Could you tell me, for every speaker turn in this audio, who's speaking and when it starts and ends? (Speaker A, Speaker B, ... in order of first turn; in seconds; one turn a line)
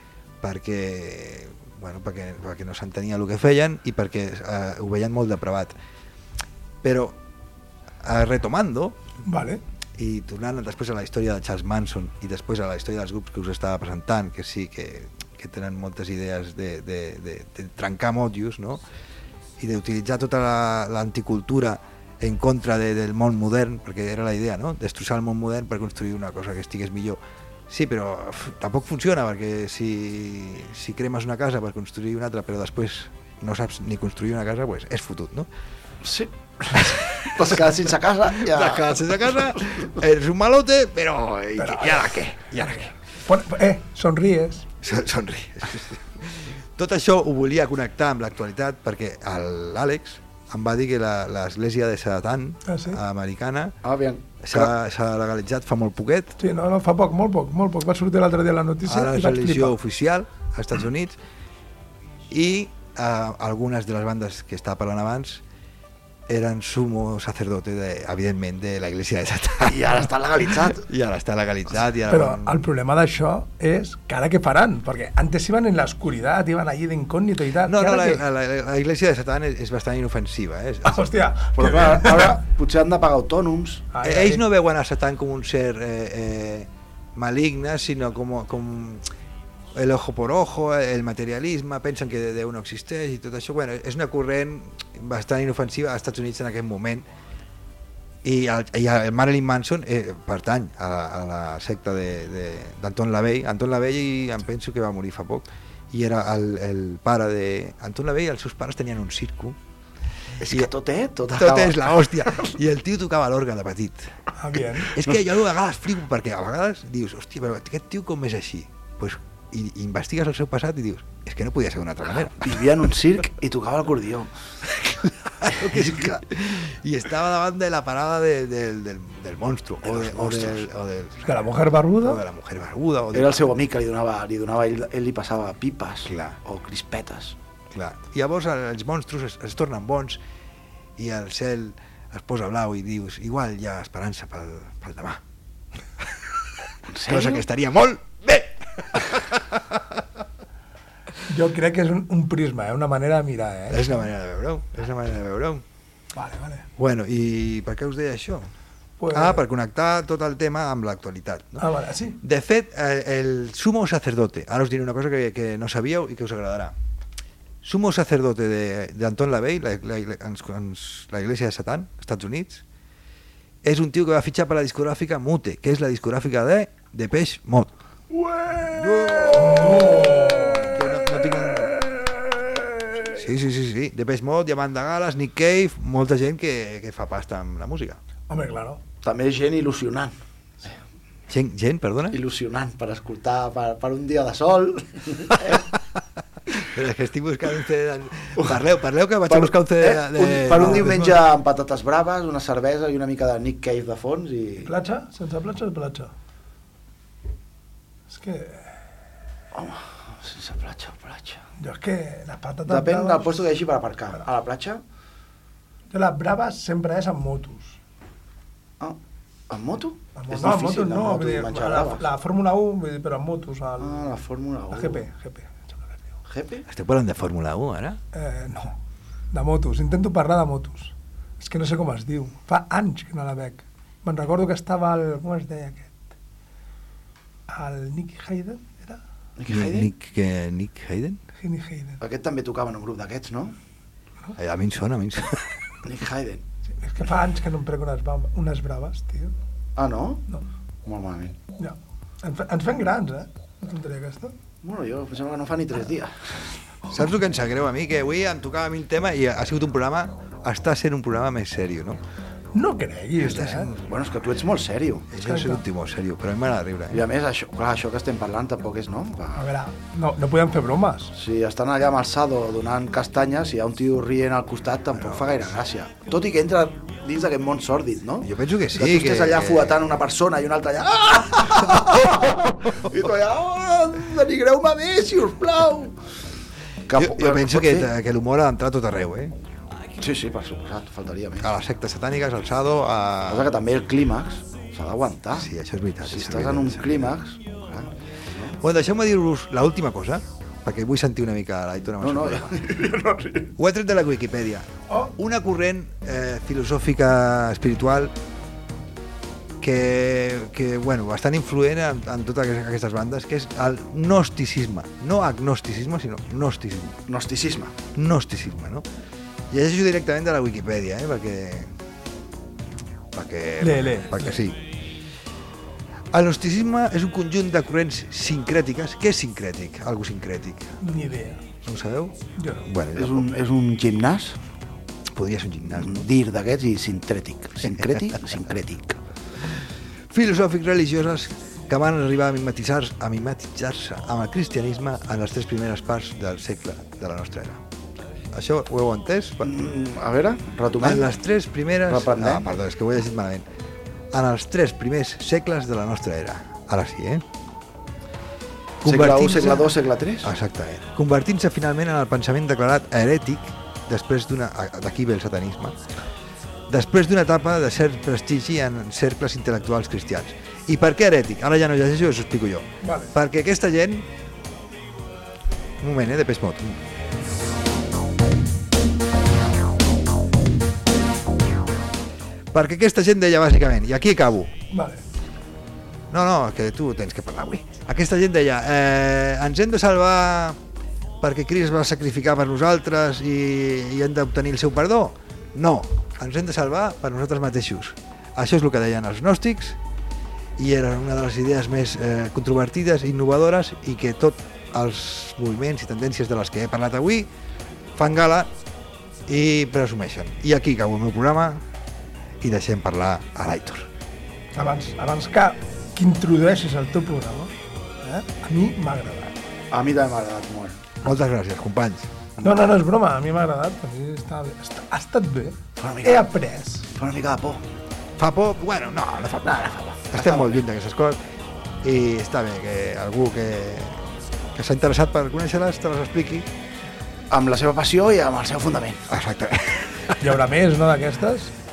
Speaker A: 0.4-5.7
Speaker A: 6.8-7.2
Speaker A: 8.0-9.0
Speaker B: 9.2-9.6
Speaker A: 10.0-18.8
Speaker A: 19.6-35.5
Speaker C: 36.0-39.1
Speaker A: 36.8-37.5
Speaker A: 38.3-42.9
Speaker B: 41.6-44.7
Speaker A: 44.8-53.8
Speaker B: 52.7-53.0
Speaker C: 53.8-54.7
Speaker A: 54.4-56.4
Speaker B: 56.4-59.7
Speaker A: 58.8-61.2
Speaker A: 62.3-65.4
Speaker A: 66.3-72.6
Speaker C: 69.6-70.8
Speaker B: 72.1-78.2
Speaker A: 77.6-81.1
Speaker B: 80.8-82.3
Speaker C: 81.5-83.8
Speaker B: 83.9-84.4
Speaker A: 84.0-89.0
Speaker A: 89.7-97.1
Speaker A: 98.2-109.6
Speaker C: 110.4-112.3
Speaker A: 110.4-110.7
Speaker A: 111.3-114.1
Speaker B: 114.3-114.9
Speaker A: 114.7-122.7
Speaker C: 122.3-124.3
Speaker A: 124.7-133.4
Speaker C: 125.6-126.2
Speaker C: 129.8-130.7
Speaker B: 131.2-132.2
Speaker C: 133.1-137.3
Speaker A: 136.1-136.4
Speaker A: 137.7-140.2
Speaker A: 141.0-145.2
Speaker A: 146.0-146.3
Speaker C: 146.9-147.4
Speaker A: 147.0-150.0
Speaker B: 151.3-153.9
Speaker A: 153.7-155.6
Speaker B: 156.1-156.7
Speaker A: 156.8-158.5
Speaker B: 159.0-159.4
Speaker A: 159.1-161.7
Speaker B: 161.6-162.2
Speaker A: 162.2-166.7
Speaker A: 167.6-172.6
Speaker A: 173.6-177.7
Speaker A: 178.6-181.8
Speaker B: 179.3-180.8
Speaker A: 183.0-188.0
Speaker B: 188.3-188.8
Speaker C: 189.0-190.1
Speaker A: 191.3-192.2
Speaker C: 192.1-195.6
Speaker A: 196.6-201.2
Speaker C: 199.3-204.7
Speaker B: 204.6-206.1
Speaker B: 208.1-208.7
Speaker C: 209.5-211.4
Speaker B: 211.6-213.3
Speaker C: 212.7-214.8
Speaker B: 215.9-217.8
Speaker C: 219.5-222.1
Speaker B: 220.2-224.1
Speaker C: 223.8-225.0
Speaker B: 224.7-226.0
Speaker C: 226.3-226.7
Speaker A: 226.7-228.0
Speaker B: 228.1-228.8
Speaker B: 229.3-236.0
Speaker B: 237.5-239.0
Speaker C: 239.4-239.9
Speaker A: 239.5-241.2
Speaker B: 241.4-242.0
Speaker C: 242.0-243.6
Speaker A: 244.3-245.4
Speaker C: 245.8-246.4
Speaker B: 246.8-249.3
Speaker C: 249.8-250.2
Speaker C: 250.8-251.4
Speaker B: 251.6-254.3
Speaker C: 254.6-256.4
Speaker A: 256.9-262.0
Speaker B: 262.5-263.7
Speaker A: 263.2-263.9
Speaker C: 263.8-265.1
Speaker A: 265.1-267.0
Speaker B: 265.2-265.6
Speaker C: 266.9-269.5
Speaker B: 269.4-271.1
Speaker C: 271.1-285.9
Speaker A: 274.9-275.6
Speaker A: 278.2-279.9
Speaker C: 286.9-287.9
Speaker A: 286.9-289.3
Speaker C: 290.0-291.5
Speaker A: 291.4-293.5
Speaker C: 293.3-295.5
Speaker A: 295.4-297.1
Speaker C: 296.0-298.6
Speaker A: 298.6-302.6
Speaker C: 302.0-303.5
Speaker A: 303.6-308.1
Speaker A: 309.6-317.0
Speaker C: 317.1-317.7
Speaker A: 317.9-318.8
Speaker A: 319.5-321.7
Speaker A: 323.1-324.7
Speaker B: 323.6-324.4
Speaker A: 326.1-330.8
Speaker B: 330.8-331.4
Speaker A: 331.6-333.3
Speaker B: 332.4-332.6
Speaker C: 332.9-334.4
Speaker A: 335.1-336.1
Speaker C: 335.7-339.0
Speaker A: 337.6-338.2
Speaker A: 340.1-347.6
Speaker A: 348.3-349.6
Speaker C: 349.4-351.1
Speaker A: 350.8-353.4
Speaker C: 351.9-352.5
Speaker A: 354.1-357.2
Speaker A: 358.8-365.8
Speaker C: 358.8-360.3
Speaker A: 366.7-374.1
Speaker B: 372.8-373.1
Speaker A: 375.8-376.8
Speaker A: 382.5-384.5
Speaker B: 384.7-385.0
Speaker A: 386.1-390.6
Speaker A: 391.2-399.8
Speaker A: 400.6-407.3
Speaker A: 407.9-408.5
Speaker A: 409.3-411.6
Speaker A: 412.4-413.9
Speaker B: 414.6-419.3
Speaker C: 419.7-421.0
Speaker A: 421.0-422.1
Speaker B: 422.4-426.9
Speaker C: 425.8-426.3
Speaker C: 426.9-427.6
Speaker A: 428.2-431.2
Speaker C: 429.5-430.6
Speaker A: 431.8-434.0
Speaker A: 434.5-436.5
Speaker C: 437.3-439.1
Speaker A: 439.1-440.2
Speaker B: 440.2-441.5